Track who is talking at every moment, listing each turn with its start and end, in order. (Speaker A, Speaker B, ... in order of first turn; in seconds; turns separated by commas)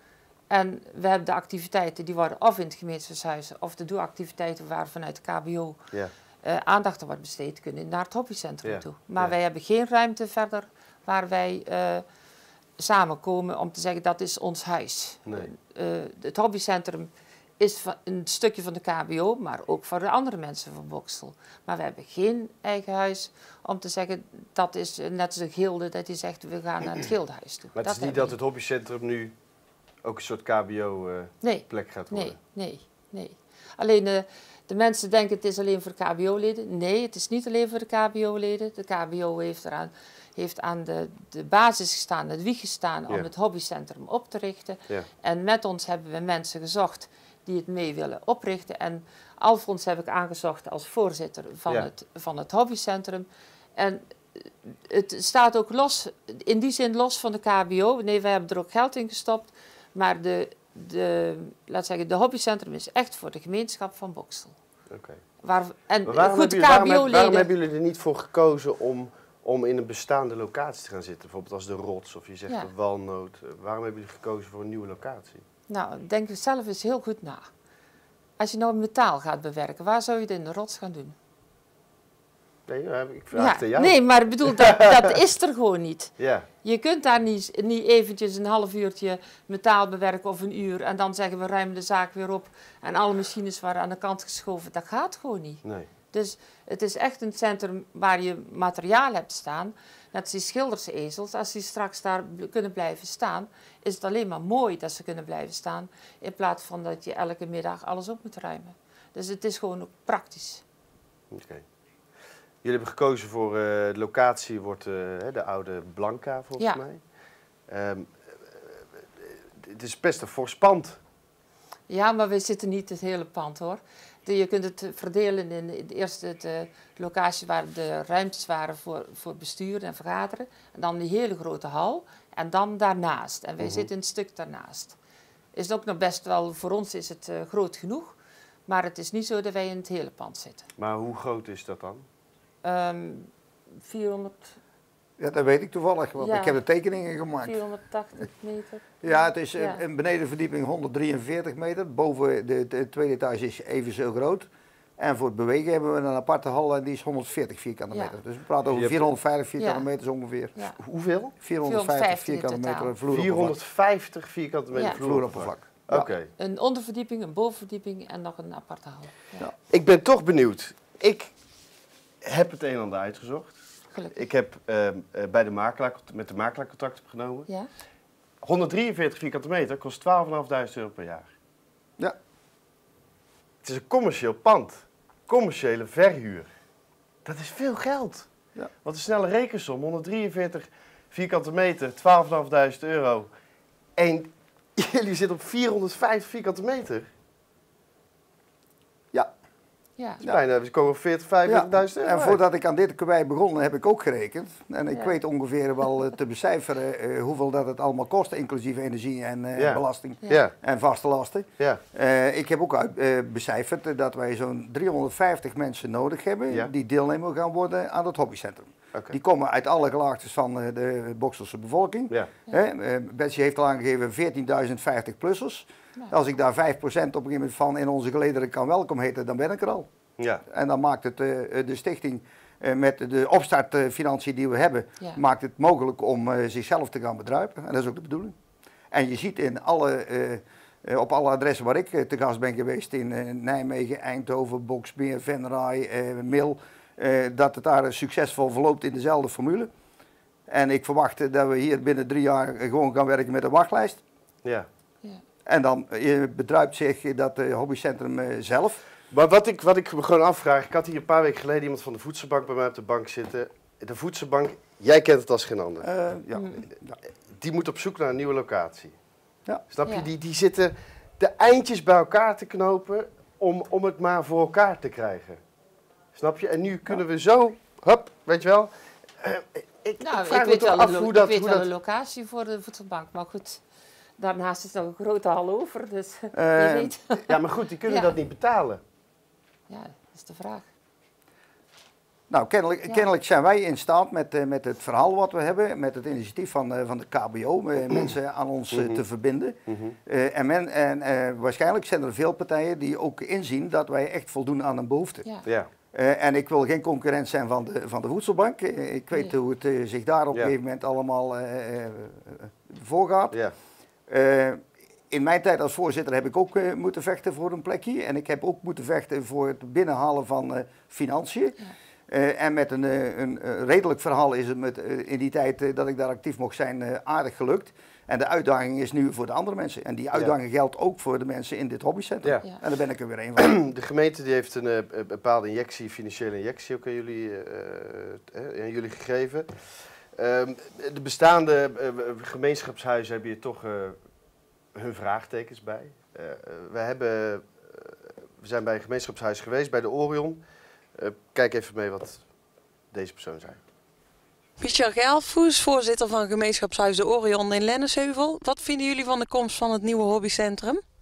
Speaker A: 0.5-5.8, Speaker A: 6.4-12.0, Speaker B: 8.6-9.3, Speaker A: 12.8-28.4, Speaker B: 27.8-29.3, Speaker B: 30.0-32.4, Speaker A: 31.4-64.5, Speaker B: 64.9-65.2, Speaker A: 65.4-67.5, Speaker B: 66.0-75.4, Speaker A: 75.7-77.5, Speaker A: 78.4-81.2, Speaker B: 82.7-84.9, Speaker A: 83.3-110.6, Speaker B: 86.2-86.5, Speaker B: 111.3-111.6, Speaker B: 112.6-117.0, Speaker B: 117.7-121.0, Speaker A: 121.9-135.0, Speaker B: 133.6-133.9, Speaker A: 135.5-140.7, Speaker B: 140.8-142.0, Speaker A: 142.6-144.6, Speaker C: 145.2-147.6, Speaker A: 146.2-146.6, Speaker A: 147.4-149.8, Speaker C: 149.0-160.5, Speaker A: 157.9-158.2, Speaker B: 158.7-159.1, Speaker A: 159.6-159.9, Speaker B: 160.8-161.3, Speaker C: 161.4-163.6, Speaker A: 161.6-162.9, Speaker B: 163.1-166.3, Speaker A: 164.7-165.0, Speaker C: 164.8-166.1, Speaker A: 166.4-169.4, Speaker B: 169.7-171.3, Speaker B: 172.2-173.6, Speaker A: 173.9-174.2, Speaker B: 174.1-177.5, Speaker B: 178.4-181.3, Speaker B: 183.6-186.5, Speaker B: 187.2-188.3, Speaker B: 188.8-193.3, Speaker B: 194.0-197.1, Speaker A: 200.0-200.2, Speaker B: 200.2-202.4, Speaker C: 201.4-229.9, Speaker A: 204.9-205.2, Speaker B: 209.6-210.6, Speaker C: 230.5-238.3, Speaker C: 238.9-249.7, Speaker C: 250.5-254.0, Speaker C: 255.4-258.8, Speaker B: 259.1-265.9, Speaker C: 265.8-267.0, Speaker A: 266.3-266.6, Speaker B: 267.3-268.9, Speaker B: 269.7-275.4, Speaker B: 276.1-281.7, Speaker A: 280.0-283.6, Speaker A: 284.2-287.3, Speaker C: 286.3-286.9, Speaker B: 287.2-288.8, Speaker A: 287.9-288.1, Speaker A: 289.7-290.6, Speaker C: 292.3-313.4, Speaker B: 298.7-299.0, Speaker B: 299.7-299.9, Speaker C: 314.1-333.5, Speaker B: 333.4-339.5, Speaker B: 340.1-344.0, Speaker B: 344.7-350.4, Speaker B: 350.9-352.2, Speaker B: 352.9-353.6, Speaker D: 354.6-360.8